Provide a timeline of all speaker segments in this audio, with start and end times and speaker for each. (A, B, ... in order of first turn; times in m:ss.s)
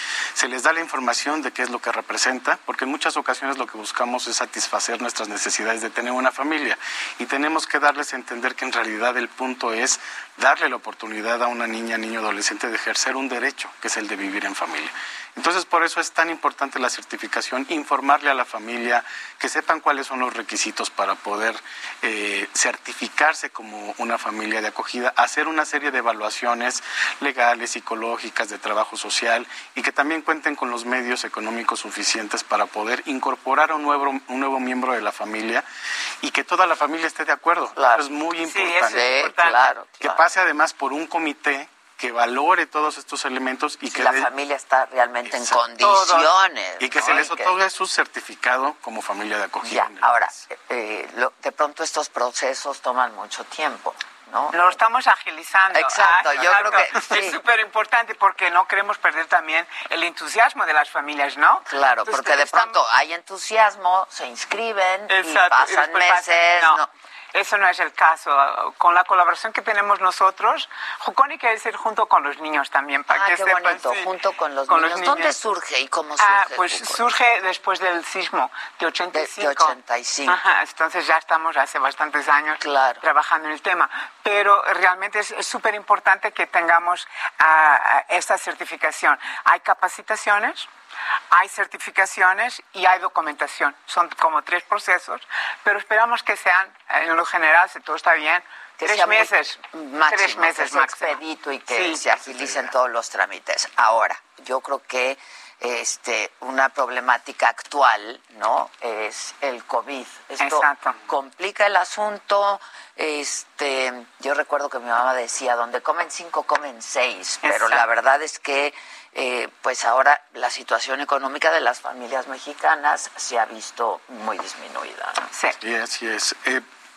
0:00.3-0:35.6 A
0:36.2-0:39.2 A
0:37.8-0:38.0 B
0:38.4-0:39.7 C
0:38.9-0:40.2 B
0:40.0-0:44.3 A
0:43.9-0:47.5 B
0:45.8-0:46.3 C
0:46.8-0:50.1 A
0:49.6-0:54.8 B
0:54.5-1:02.8 C
0:55.7-0:57.4 B
1:01.7-1:06.9 B
1:05.1-1:06.8 C
1:07.3-1:14.1 C
1:13.1-1:17.0 B
1:14.7-1:15.4 C
1:16.2-1:30.7 C
1:19.1-1:20.4 B
1:22.6-1:23.0 B
1:31.3-1:42.6 C
1:38.8-2:05.3 B
1:50.4-1:51.0 C
1:57.4-1:57.8 C
2:05.6-2:06.6 A